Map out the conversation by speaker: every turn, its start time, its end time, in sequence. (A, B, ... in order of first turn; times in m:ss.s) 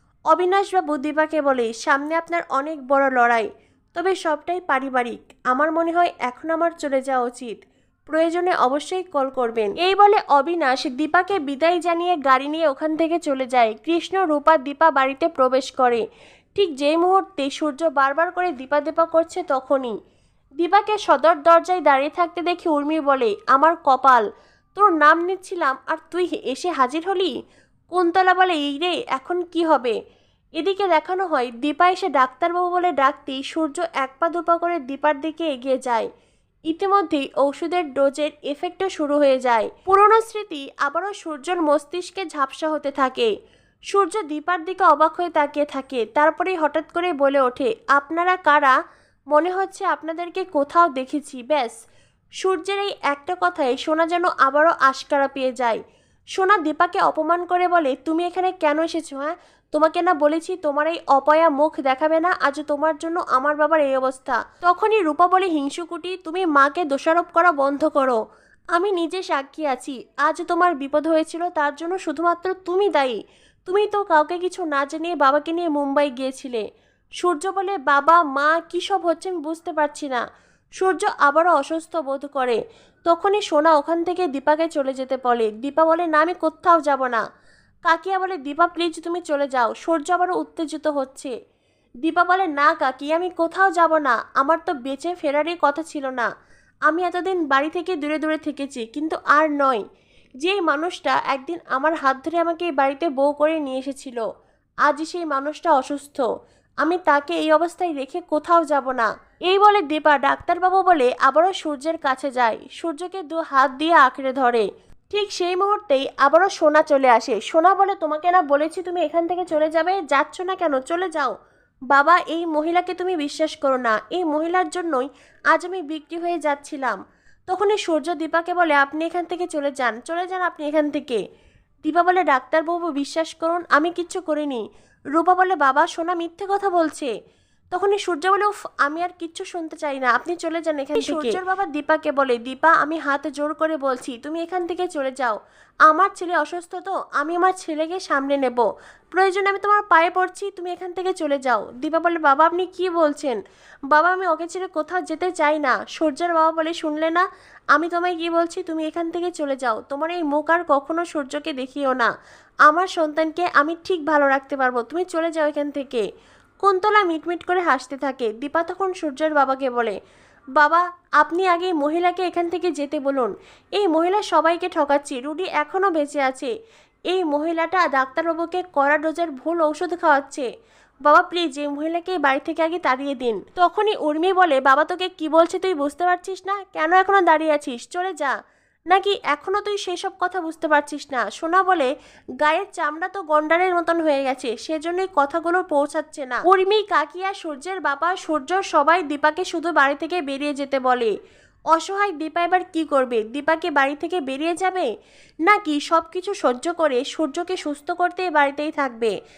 0:00.3-0:16.0 A
0:16.6-0:19.9 A
0:20.6-0:27.3 A
0:27.9-0:30.0 A
0:30.6-0:36.1 A
0:36.7-0:43.3 A
0:43.9-0:48.8 A
0:49.3-0:51.8 A
0:52.4-0:55.8 A
0:56.4-1:08.2 A
1:08.7-1:16.6 A
1:17.2-1:20.2 A
1:20.8-1:27.2 A
1:27.9-1:31.3 A
1:32.0-1:36.3 A
1:36.9-1:39.8 A
1:40.4-1:44.2 A
1:44.8-1:46.3 A
1:46.8-2:01.4 A
2:01.9-2:11.2 A
2:11.8-2:17.1 A
2:17.7-2:33.4 A
2:33.9-2:42.1 A
2:42.7-2:46.0 A
2:46.6-2:50.0 A
2:50.6-2:56.5 A
2:57.1-3:00.5 A
3:01.0-3:08.4 A
3:08.9-3:11.9 A
3:12.4-3:21.1 A
3:21.7-3:24.9 A
3:25.4-3:29.1 A